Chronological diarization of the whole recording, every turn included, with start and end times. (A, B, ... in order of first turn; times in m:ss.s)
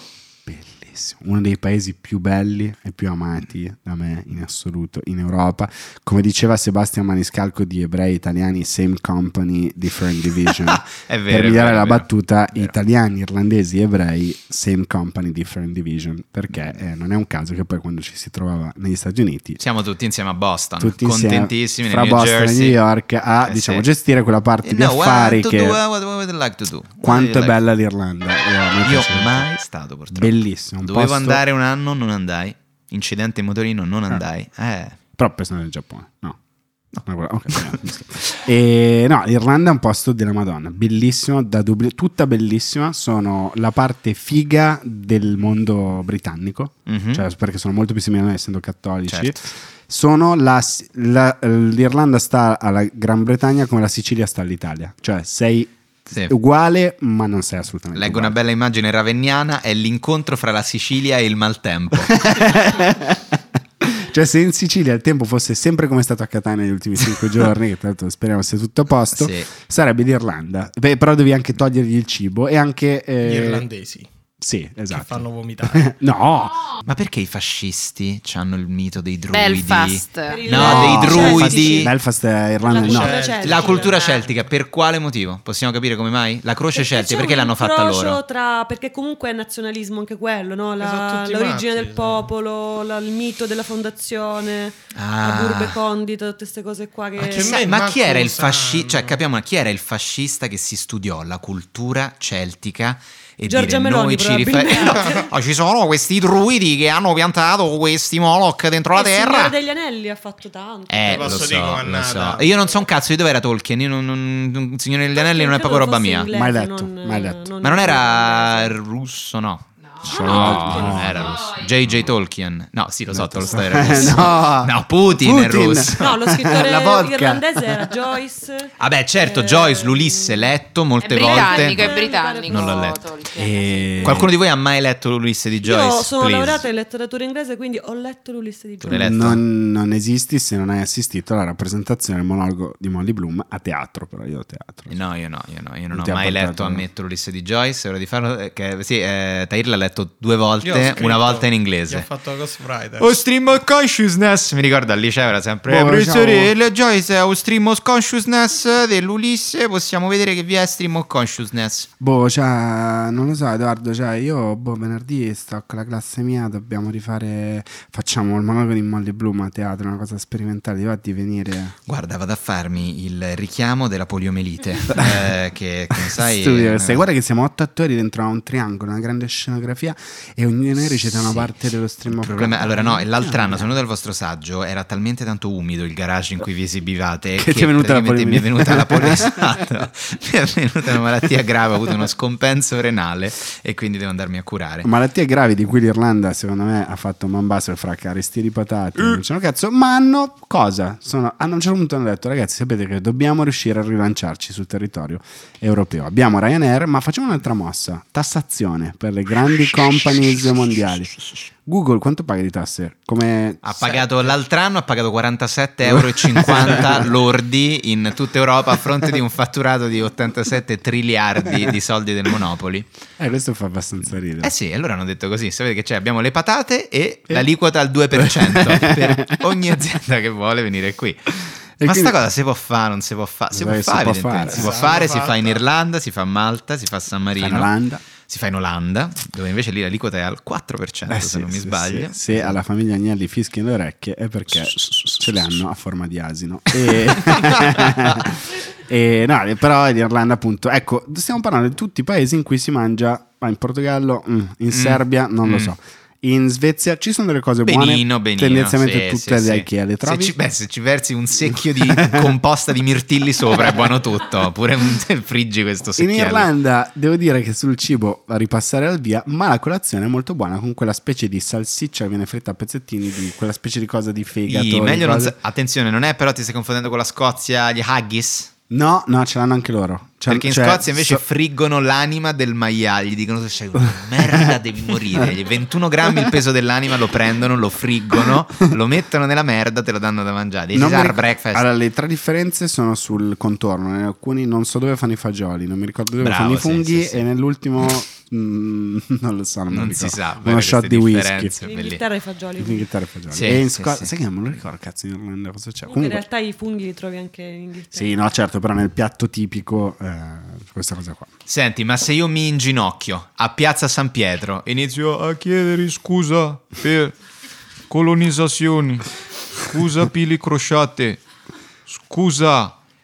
0:00.4-0:19.6 A
0:10.7-0:12.7 B
0:19.6-0:22.8 B
0:20.8-0:25.8 A
0:23.4-0:23.8 B
0:24.6-0:27.6 B
0:27.0-0:29.4 A
0:28.8-0:35.0 B
0:30.1-0:31.4 A
0:35.2-0:36.4 A
0:36.9-0:37.8 B
0:37.0-0:49.4 A
0:46.9-0:47.2 B
0:49.1-0:49.3 B
0:49.9-0:58.4 A
0:57.9-1:02.1 B
1:02.0-1:13.6 A
1:09.1-1:09.5 B
1:13.2-1:14.1 C
1:14.4-1:16.6 A
1:14.9-1:15.9 C
1:16.8-1:21.9 B
1:19.3-1:21.7 D
1:20.3-1:21.9 E
1:20.6-1:23.2 A
1:22.7-1:24.0 E
1:22.7-1:24.2 C
1:23.4-1:28.2 B
1:23.9-1:24.2 D
1:26.7-1:37.6 E
1:30.8-1:32.3 C
1:34.9-1:35.8 B
1:37.2-1:49.6 B
1:37.2-1:39.2 C
1:43.5-1:45.2 E
1:48.9-1:51.6 E
1:50.9-1:56.3 B
1:51.1-1:52.8 C
1:55.2-1:58.7 E
1:56.3-1:57.5 A
1:57.6-2:06.2 B
1:59.8-2:01.7 D
2:00.0-2:01.5 A
2:00.0-2:01.3 E
2:03.1-2:07.9 A
2:03.5-2:04.3 E
2:06.0-2:10.5 E
2:08.8-2:13.0 B
2:11.0-2:14.1 D
2:11.1-2:13.1 E
2:13.3-2:14.3 A
2:14.0-2:16.6 B
2:15.6-2:19.2 E
2:18.8-2:19.4 B
2:18.9-2:25.0 A
2:24.9-2:32.1 B
2:25.9-2:26.8 A
2:30.6-2:33.2 C
2:33.0-2:41.9 B
2:35.7-2:36.5 A
2:42.0-2:51.7 A
2:51.9-2:57.0 B
2:54.9-2:55.3 A
2:56.0-3:03.7 A
3:02.1-3:14.9 B
3:07.4-3:09.8 A
3:14.8-3:31.1 A
3:31.6-3:33.6 A
3:33.6-3:42.9 B
3:33.8-3:34.3 C
3:35.9-3:37.1 A
3:43.2-3:44.5 A
3:44.4-3:51.3 B
3:48.1-3:49.3 A
3:51.8-3:52.1 A
3:51.8-3:57.7 B
3:53.5-3:54.8 A
3:54.5-3:55.6 C
3:57.4-3:58.0 A
3:58.2-4:02.6 B
4:01.1-4:20.3 A
4:14.7-4:15.7 B
4:17.6-4:26.5 B
4:21.9-4:22.3 A
4:26.0-4:35.3 A
4:34.5-4:38.5 B
4:38.7-4:41.2 A
4:40.3-4:51.6 B
4:44.2-4:44.5 A
4:50.7-5:01.5 A
4:56.2-4:57.2 B
4:59.7-5:02.0 B
5:01.6-5:02.8 E
5:02.6-5:06.2 A
5:03.3-5:04.1 B
5:05.9-5:08.2 E
5:07.9-5:11.3 A
5:11.5-5:17.1 B
5:17.9-5:19.1 B
5:19.6-5:21.2 B
5:21.9-5:22.7 B